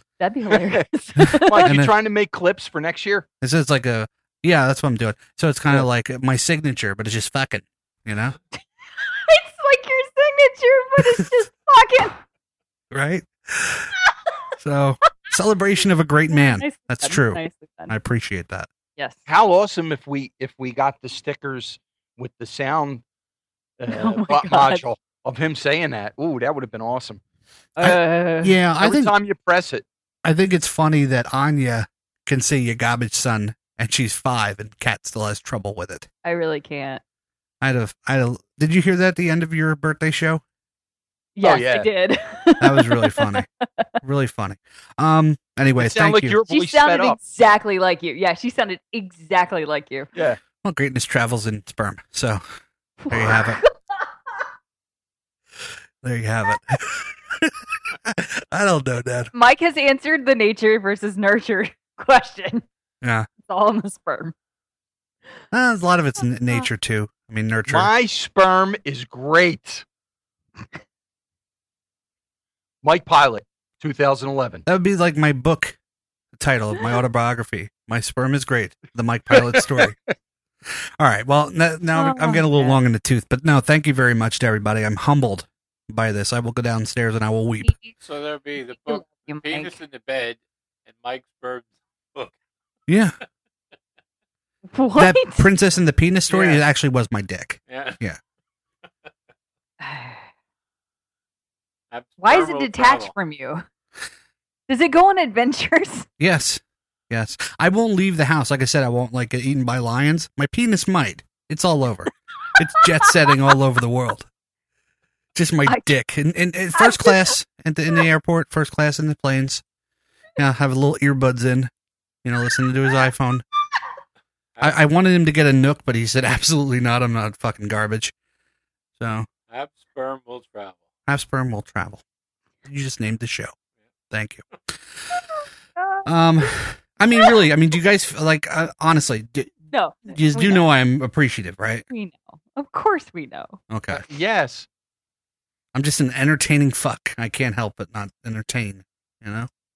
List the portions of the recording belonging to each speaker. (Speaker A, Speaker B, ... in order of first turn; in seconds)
Speaker A: 0.2-1.7, 9.3-12.2, 16.3-17.9, 23.9-24.8, 27.8-28.5, 36.2-37.0, 41.4-43.9, 46.5-50.1, 53.0-54.1, 59.3-62.6, 63.4-64.3, 81.9-82.8, 87.6-87.9, 88.7-89.8, 94.7-95.5, 99.8-100.2, 102.2-103.6, 104.7-106.1, 115.7-115.9, 116.7-117.3, 135.8-136.0, 139.7-140.7, 141.9-143.6
Speaker B: 1.3-3.3, 19.3-23.0, 23.8-27.2, 28.8-29.9, 41.4-41.9, 45.8-47.2, 50.1-50.4, 67.7-69.8, 72.8-74.6, 79.3-79.9, 143.9-144.7
Speaker C: 1.6-1.9, 3.4-8.4, 12.9-13.9, 14.6-18.7, 27.8-29.1, 30.2-36.1, 37.6-40.4, 42.6-43.5, 44.0-46.4, 50.6-52.4, 53.1-53.6, 56.0-59.3, 63.0-63.3, 65.5-67.9, 74.7-75.8, 76.3-80.0, 81.0-87.7, 92.9-93.2, 95.0-98.2, 106.2-114.3, 115.3-119.6, 120.4-121.7, 122.2-123.4, 124.6-128.1, 129.0-129.3, 131.1-132.0, 132.6-133.5, 134.1-134.4, 136.0-139.6, 140.1-141.8, 143.7-144.0, 145.7-149.5
Speaker D: 88.0-92.3, 96.3-96.6, 97.7-98.0, 101.9-103.1, 124.6-124.8, 129.5-130.8